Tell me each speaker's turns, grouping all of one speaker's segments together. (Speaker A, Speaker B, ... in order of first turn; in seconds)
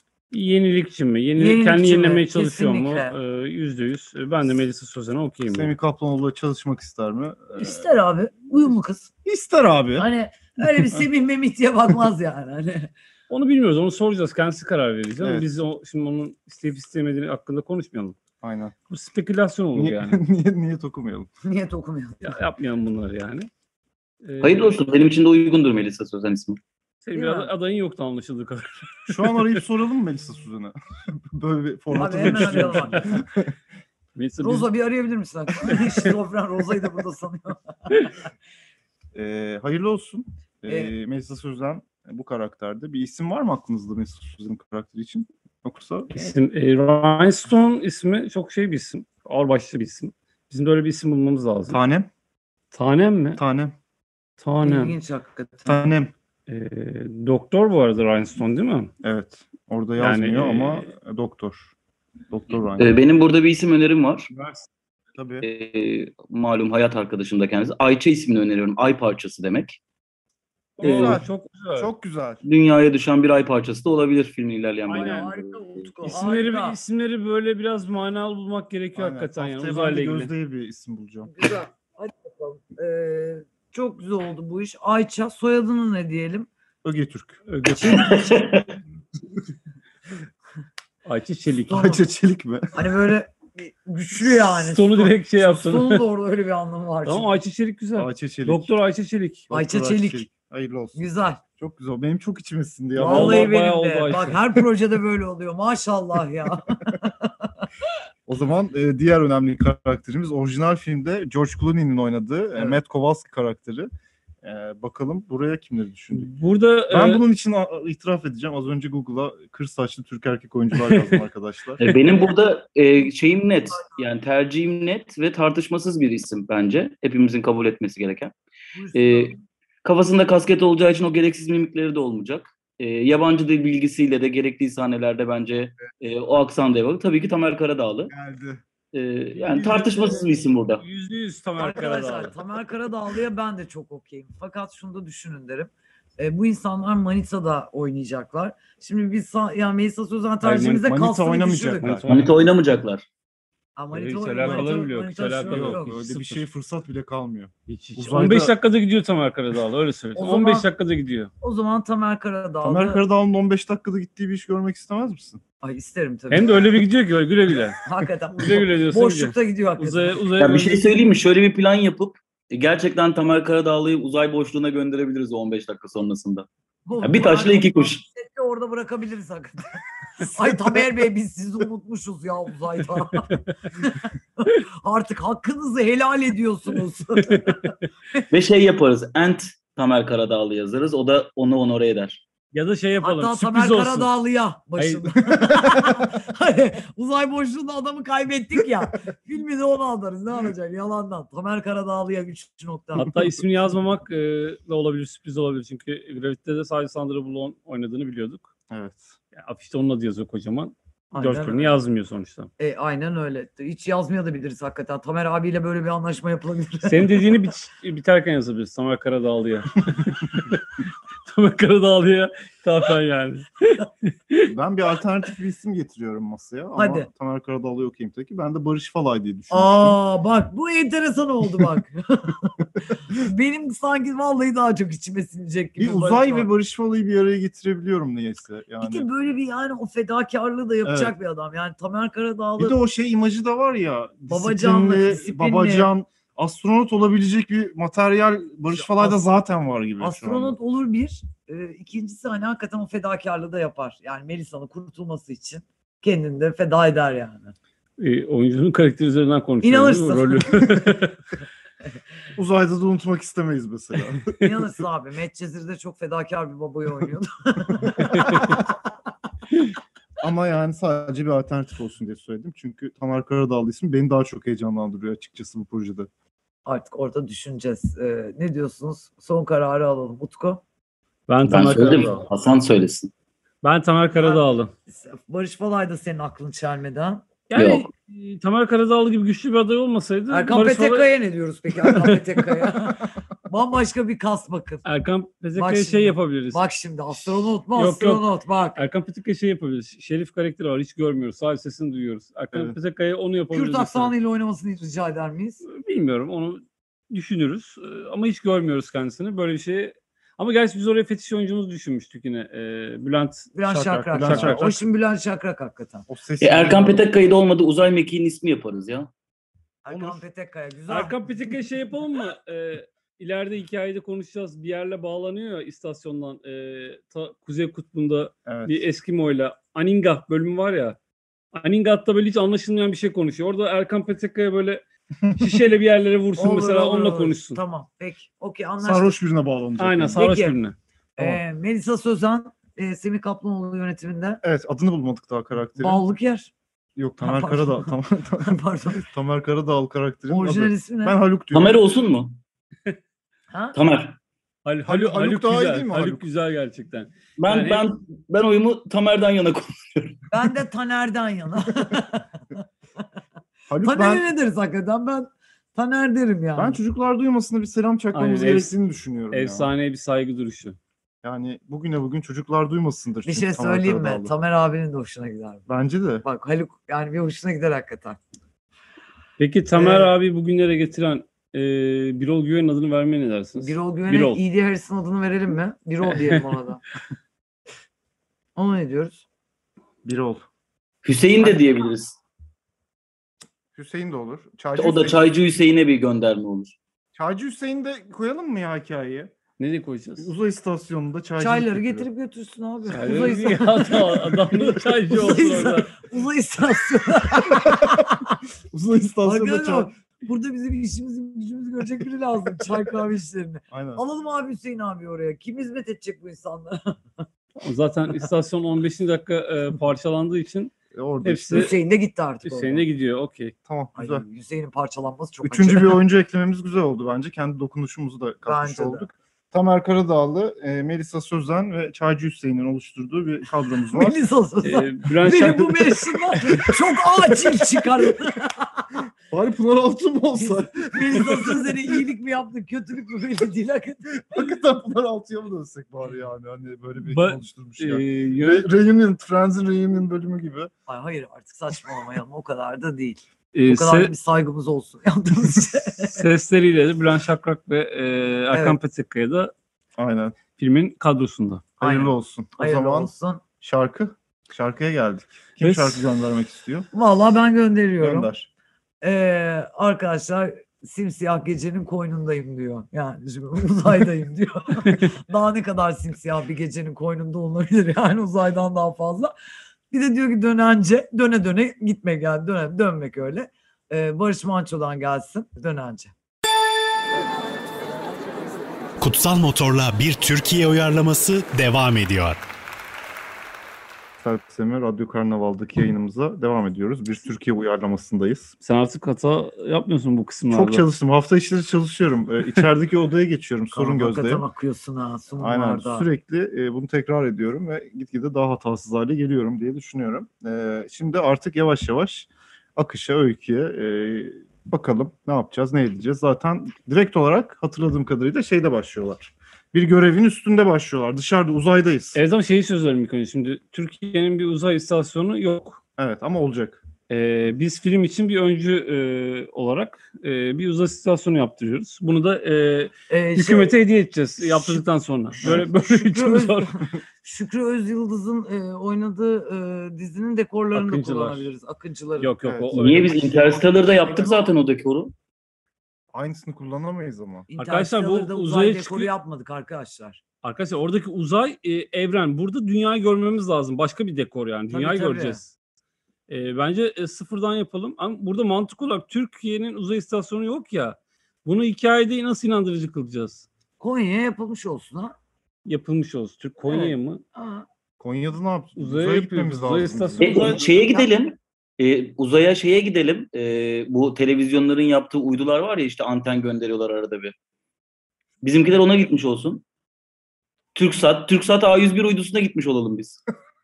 Speaker A: 0.3-5.7, 13.3-18.2, 18.9-20.2, 22.2-23.5, 24.2-24.9, 27.0-29.6, 32.0-33.2, 34.2-34.7, 35.7-36.0, 46.1-51.8, 52.7-53.4, 54.4-55.0, 56.5-58.9, 60.0-60.9, 70.8-71.9, 74.9-75.3, 76.0-80.3, 87.5-88.3, 91.0-92.0, 94.3-96.1, 97.0-99.5, 103.0-104.4, 116.1-117.2, 120.8-121.1, 139.9-140.2, 140.8-142.3, 150.4-150.9, 151.8-152.4, 153.9-156.5, 157.7-161.3, 166.3-167.8, 168.4-170.8, 187.2-187.7, 192.5-194.1, 194.8-195.2, 202.9-208.5, 209.3-212.5, 216.8-220.7, 221.3-224.5, 258.0-261.1, 268.1-268.6, 281.3-282.2, 283.6-284.7, 287.5-291.1, 291.9-292.9, 294.9-298.2, 298.8-304.1, 305.6-313.5, 314.1-314.8, 320.9-331.0, 331.5-334.8, 335.4-337.6, 339.8-340.8, 354.6-357.9, 368.1-368.7, 369.3-370.8, 379.4-384.4, 386.1-386.4, 399.6-400.3, 402.8-405.9, 417.6-420.7, 421.2-421.7, 422.4-423.6, 434.6-436.1, 447.1-448.7, 453.5-454.1, 456.0-459.5, 460.6-461.7, 465.6-466.0, 498.6-500.9, 522.1-525.8, 527.1-536.7, 540.7-541.5, 542.2-543.6, 547.6-549.1, 550.4-555.5, 556.3-563.5, 565.7-567.2, 568.8-570.6
Speaker B: 1.4-3.2, 7.6-9.1, 10.0-12.9, 21.4-22.4, 27.1-27.5, 31.9-33.1, 34.4-37.6, 40.7-40.9, 54.6-55.8, 74.9-76.8, 81.2-86.5, 87.7-88.3, 91.7-92.0, 92.8-97.3, 99.5-100.3, 101.0-101.4, 103.0-107.3, 128.8-129.4, 141.6-151.8, 153.8-155.9, 160.2-160.7, 161.4-163.0, 165.6-166.5, 167.8-170.2, 176.9-187.6, 193.0-203.1, 211.1-211.7, 212.6-217.2, 226.8-227.1, 229.5-236.5, 238.8-242.8, 244.3-245.9, 248.7-249.2, 250.0-257.5, 259.6-261.0, 264.4-268.6, 276.6-280.6, 284.2-287.3, 290.3-294.8, 295.6-298.8, 303.5-305.6, 313.6-316.1, 319.8-321.6, 336.4-339.2, 340.1-340.6, 341.2-344.4, 345.8-346.5, 347.2-349.1, 350.3-351.2, 353.5-353.8, 360.3-362.6, 363.8-366.8, 373.2-375.6, 376.2-378.2, 379.8-380.1, 383.6-386.8, 388.6-389.2, 401.4-408.4, 409.2-417.2, 421.5-422.9, 424.0-426.0, 428.4-429.1, 433.9-438.9, 440.4-444.2, 450.9-456.3, 458.5-458.8, 461.8-463.4, 466.9-468.3, 469.0-479.3, 479.9-486.1, 503.7-506.1, 533.1-533.8, 534.4-534.8, 535.4-542.3, 544.0-544.5, 547.5-550.2, 554.7-555.4, 563.8-565.1, 566.7-567.7, 570.2-571.1
Speaker C: 5.5-7.9, 9.2-10.1, 15.2-15.5, 18.4-18.8, 19.8-21.3, 29.1-33.5, 39.1-46.3, 51.7-52.1, 53.4-53.8, 55.6-56.1, 59.0-61.7, 62.3-62.9, 65.2-65.5, 70.8-72.4, 79.0-81.5, 86.8-87.4, 91.7-92.8, 98.0-98.7, 99.5-101.0, 101.6-103.5, 108.3-113.9, 114.4-116.3, 116.9-121.8, 138.1-138.6, 139.4-140.3, 150.8-152.1, 155.5-158.5, 162.6-165.4, 195.3-196.1, 208.7-209.2, 224.5-230.0, 235.8-239.1, 240.8-241.1, 242.6-250.6, 262.4-264.2, 267.8-268.1, 270.2-276.1, 313.6-314.8, 316.1-317.1, 319.9-320.2, 328.5-328.9, 335.2-335.6, 338.8-340.3, 344.4-346.0, 347.0-351.8, 354.9-356.3, 363.7-364.2, 366.6-369.7, 371.2-374.3, 375.7-376.2, 390.0-390.4, 393.7-395.2, 397.1-399.3, 400.2-402.1, 407.5-408.0, 408.7-409.9, 413.7-414.0, 420.9-421.7, 423.7-424.2, 425.4-434.2, 439.3-441.8, 444.3-450.7, 460.0-460.4, 461.8-466.9, 468.0-468.5, 494.2-498.5, 500.5-504.4, 505.4-522.2, 526.0-526.8, 542.4-542.8, 546.1-547.5, 568.0-570.5
Speaker D: 24.4-26.6, 62.8-64.3, 65.4-69.8, 70.8-71.2, 72.4-75.9, 87.8-88.7, 121.8-128.3, 128.9-138.1, 138.9-140.8, 152.1-153.1, 170.4-176.5, 177.0-178.0, 188.3-192.2, 281.5-283.1, 287.6-287.9, 316.4-319.1, 351.5-352.4, 353.7-354.2, 357.4-360.2, 391.0-392.2, 394.8-396.8, 542.7-545.1, 570.2-577.3, 578.4-579.6, 580.8-583.2
Speaker E: 489.0-492.4